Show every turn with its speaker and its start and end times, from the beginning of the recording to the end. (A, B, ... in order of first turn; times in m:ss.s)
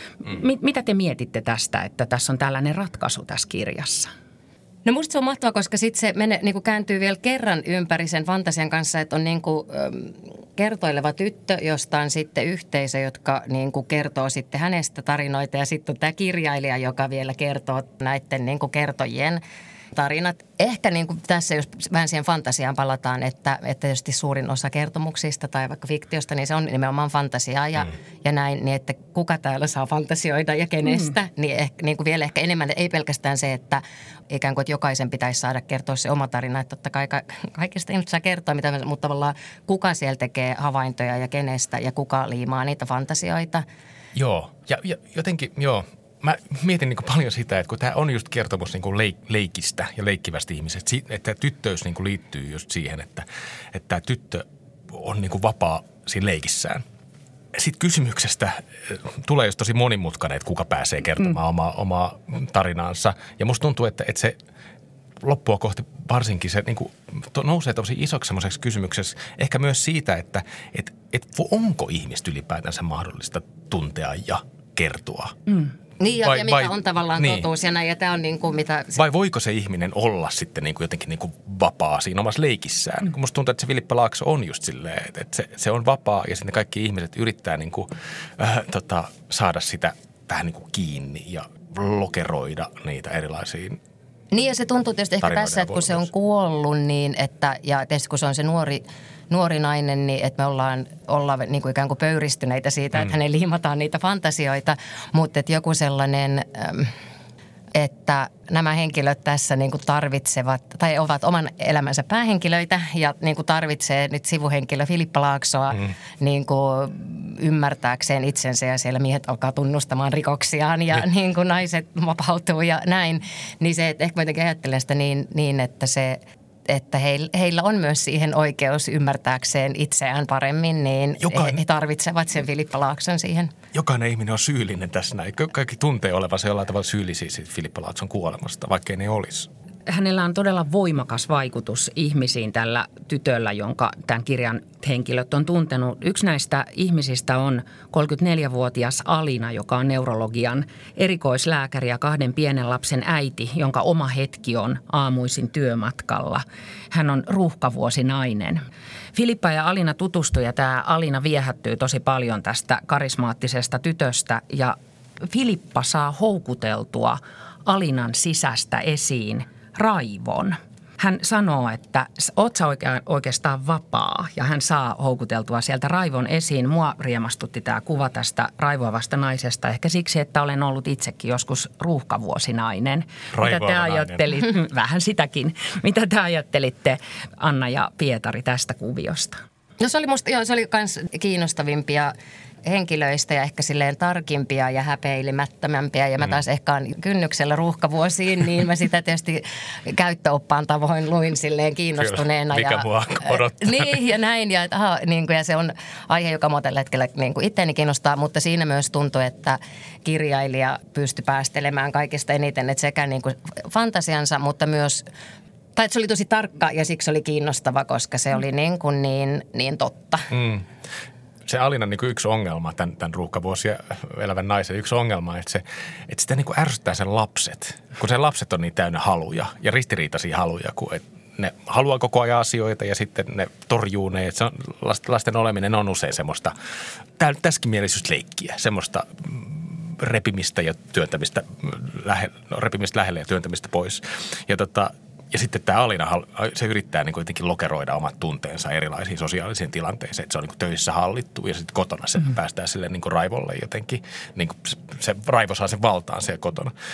0:00.2-0:04.1 A
0:04.8-0:19.4 B
0:19.9-0:43.6 B
0:30.8-0:31.1 A
0:44.1-0:56.8 C
0:57.5-1:04.4 C
1:05.2-1:15.3 C
1:16.0-1:19.0 B
1:16.2-1:17.5 C
1:19.0-1:33.8 C
1:34.3-1:46.9 B
1:35.2-1:36.1 C
1:47.7-2:13.5 B
2:11.2-2:11.6 C
2:13.7-2:19.5 C
2:19.9-2:38.6 A
2:39.1-3:09.4 A
3:03.3-3:04.3 C
3:09.8-3:12.1 B
3:12.6-3:35.0 B
3:22.0-3:24.0 C
3:35.8-3:40.3 B
3:40.3-3:40.6 C
3:41.4-3:56.5 C
3:57.2-4:16.7 C